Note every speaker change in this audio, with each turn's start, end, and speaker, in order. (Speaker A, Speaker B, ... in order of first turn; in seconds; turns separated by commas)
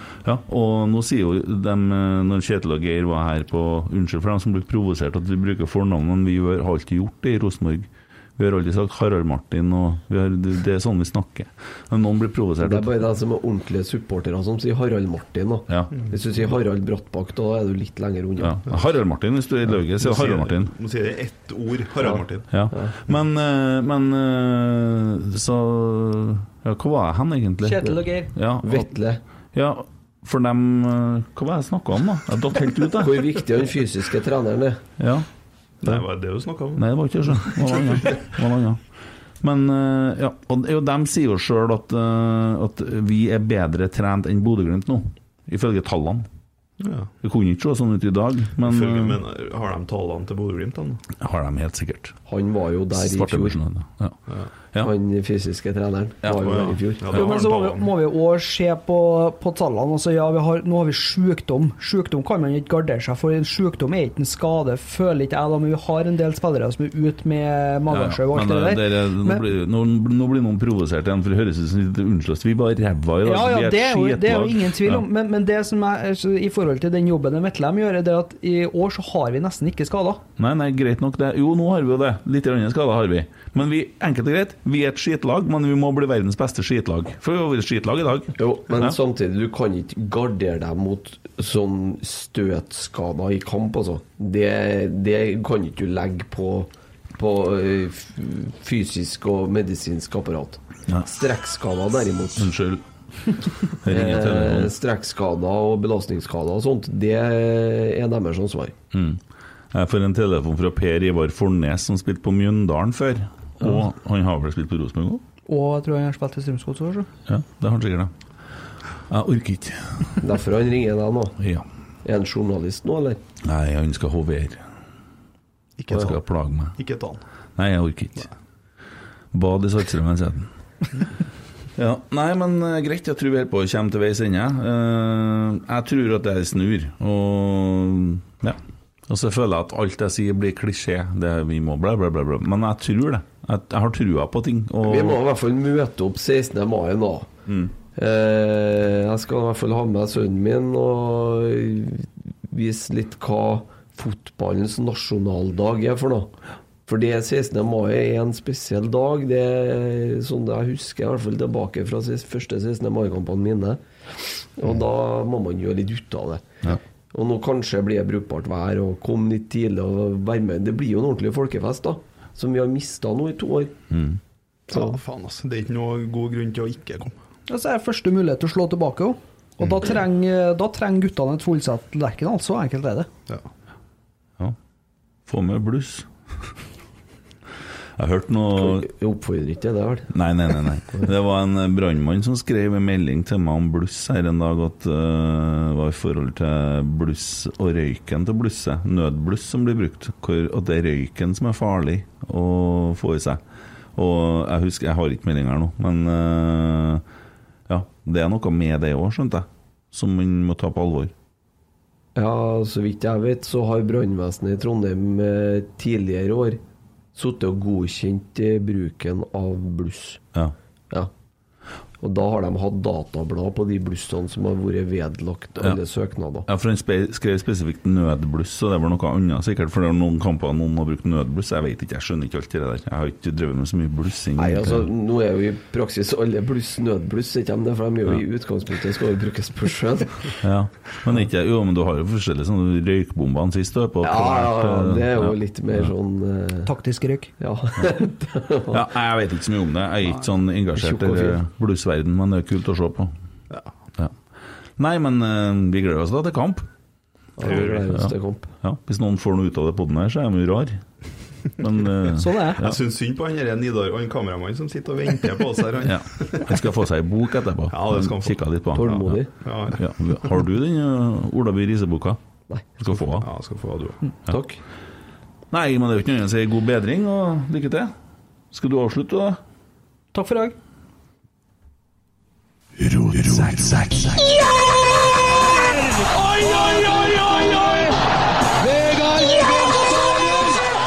Speaker A: 0.2-12.9, Speaker B: 12.6-18.6, Speaker A: 15.7-15.9, Speaker A: 18.4-20.7, Speaker C: 20.0-22.5, Speaker A: 22.5-28.9, Speaker D: 27.6-28.3, Speaker B: 28.6-29.2, Speaker A: 29.5-33.3, Speaker B: 33.0-34.8, Speaker A: 35.0-35.3, Speaker C: 35.8-38.3, Speaker A: 36.8-38.8, Speaker A: 39.4-46.3, Speaker C: 46.8-47.1, Speaker A: 47.2-49.2, Speaker C: 48.6-51.0, Speaker A: 51.2-52.2, Speaker B: 52.3-53.6, Speaker A: 52.9-54.2, Speaker B: 54.8-57.2, Speaker A: 56.3-56.6, Speaker C: 56.4-57.9, Speaker D: 57.1-69.4, Speaker A: 67.9-75.0, Speaker D: 73.2-80.2, Speaker A: 80.4-88.9, Speaker B: 88.3-102.5, Speaker A: 102.3-102.8, Speaker A: 103.8-104.7, Speaker B: 103.8-108.7, Speaker A: 108.9-109.2, Speaker A: 109.7-115.2, Speaker D: 115.5-117.1, Speaker A: 117.3-118.1, Speaker A: 119.1-120.2, Speaker B: 120.2-121.4, Speaker A: 121.4-121.7, Speaker B: 122.0-123.2, Speaker A: 123.4-124.7, Speaker C: 125.8-126.2, Speaker A: 125.9-126.8, Speaker C: 126.7-127.2, Speaker A: 127.6-128.3, Speaker A: 129.3-130.5, Speaker A: 131.8-145.2, Speaker B: 144.8-147.3, Speaker A: 147.5-147.7, Speaker B: 147.9-156.3, Speaker B: 156.8-166.6, Speaker B: 167.1-173.7, Speaker A: 173.9-174.2, Speaker B: 174.7-175.0, Speaker C: 174.7-177.2, Speaker D: 177.5-183.1, Speaker A: 185.3-186.1, Speaker A: 188.0-188.9, Speaker B: 188.6-190.1, Speaker A: 190.1-203.4, Speaker A: 203.9-207.0, Speaker A: 207.7-211.1, Speaker B: 212.1-216.6, Speaker B: 217.1-220.2, Speaker B: 222.0-226.5, Speaker A: 226.5-234.9, Speaker B: 234.4-240.4, Speaker A: 240.4-245.9, Speaker B: 244.0-246.7, Speaker D: 246.7-247.3, Speaker B: 247.4-248.8, Speaker A: 248.7-253.1, Speaker B: 250.8-251.4, Speaker A: 254.8-256.7, Speaker B: 257.4-258.5, Speaker C: 257.5-257.8, Speaker A: 257.5-260.8, Speaker A: 261.6-262.8, Speaker D: 262.1-262.6, Speaker C: 262.6-266.6, Speaker A: 265.8-269.2, Speaker C: 267.7-269.9, Speaker B: 268.7-269.3, Speaker A: 269.7-272.2, Speaker B: 272.5-272.8, Speaker A: 272.8-273.3, Speaker C: 273.2-274.0, Speaker B: 274.3-274.6, Speaker A: 275.5-277.9, Speaker A: 278.5-279.4, Speaker D: 280.1-280.6, Speaker A: 282.8-284.1, Speaker E: 284.2-284.6, Speaker E: 285.4-288.0, Speaker E: 288.6-290.6